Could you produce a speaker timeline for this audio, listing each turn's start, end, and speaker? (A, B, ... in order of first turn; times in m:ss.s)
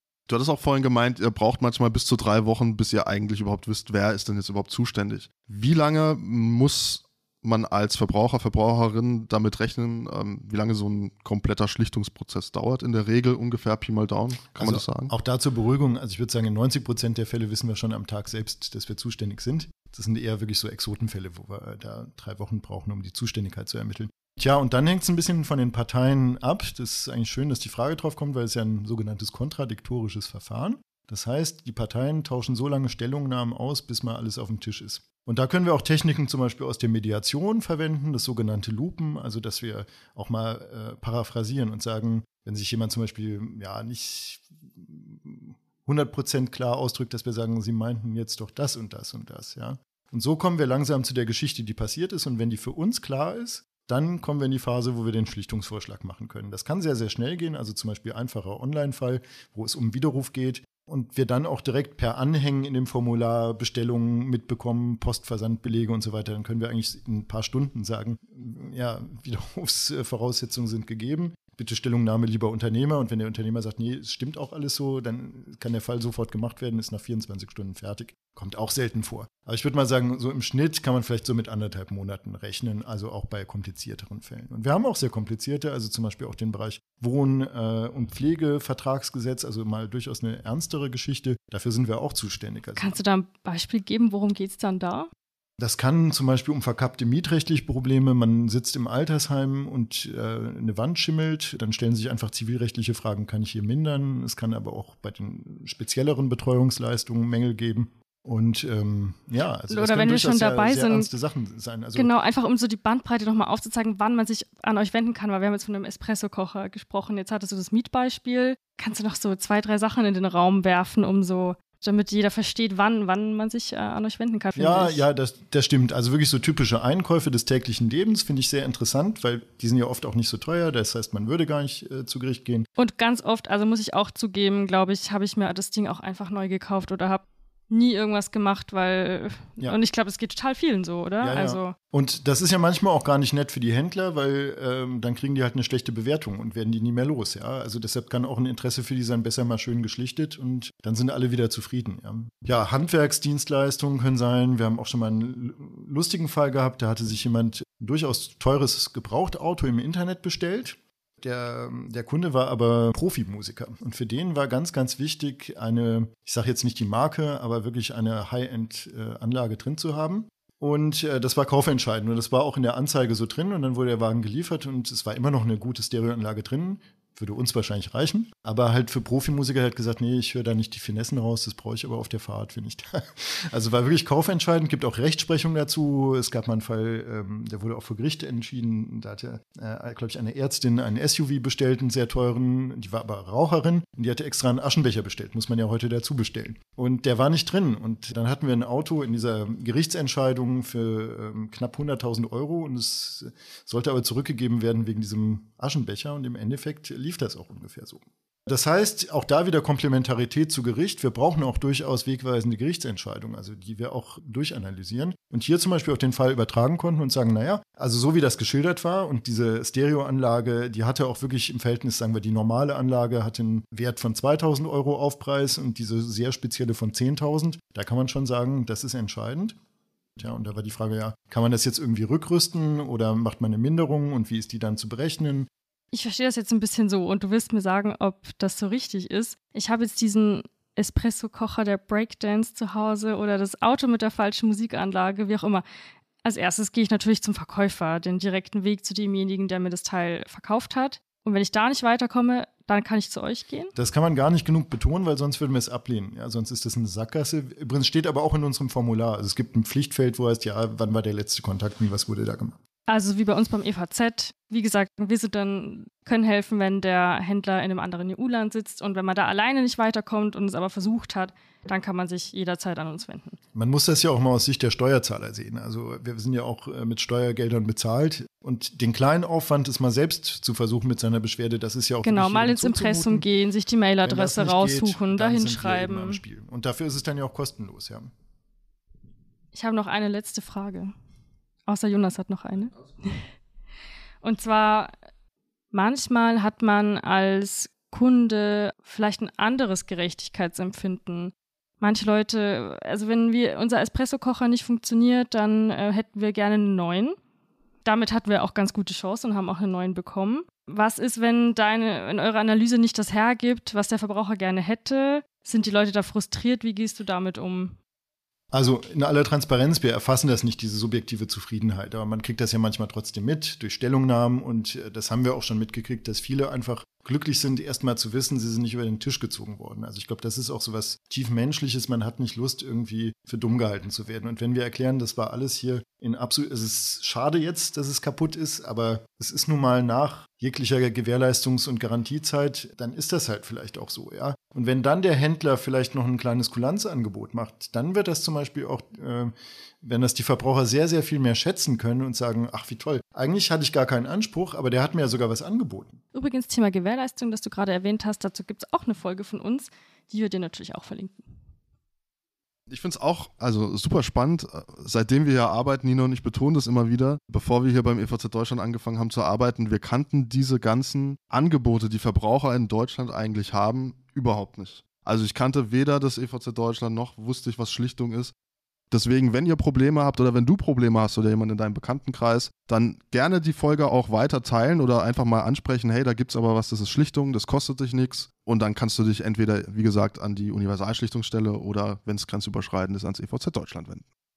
0:00.3-0:15.1 A
0:14.6-1:32.9 B
1:32.8-1:35.1 C
1:35.6-1:52.1 B
1:49.7-1:51.1 C
1:52.0-2:05.0 C
2:04.6-2:12.7 B
2:12.8-2:21.7 C
2:21.2-3:49.6 B
3:50.2-3:55.5 B
3:55.9-4:05.6 C
4:06.2-4:13.7 C
4:13.8-4:22.6 B
4:22.9-4:33.4 C
4:33.5-4:43.3 B
4:42.0-4:46.2 C
4:44.0-4:48.1 B
4:49.5-4:50.9 C
4:51.7-4:53.3 C
4:54.2-4:54.9 C
4:55.7-5:07.2 C
5:07.8-5:17.8 C
5:18.5-5:56.0 B
5:56.1-6:01.3 C
6:02.7-6:18.3 A
6:18.9-6:34.1 A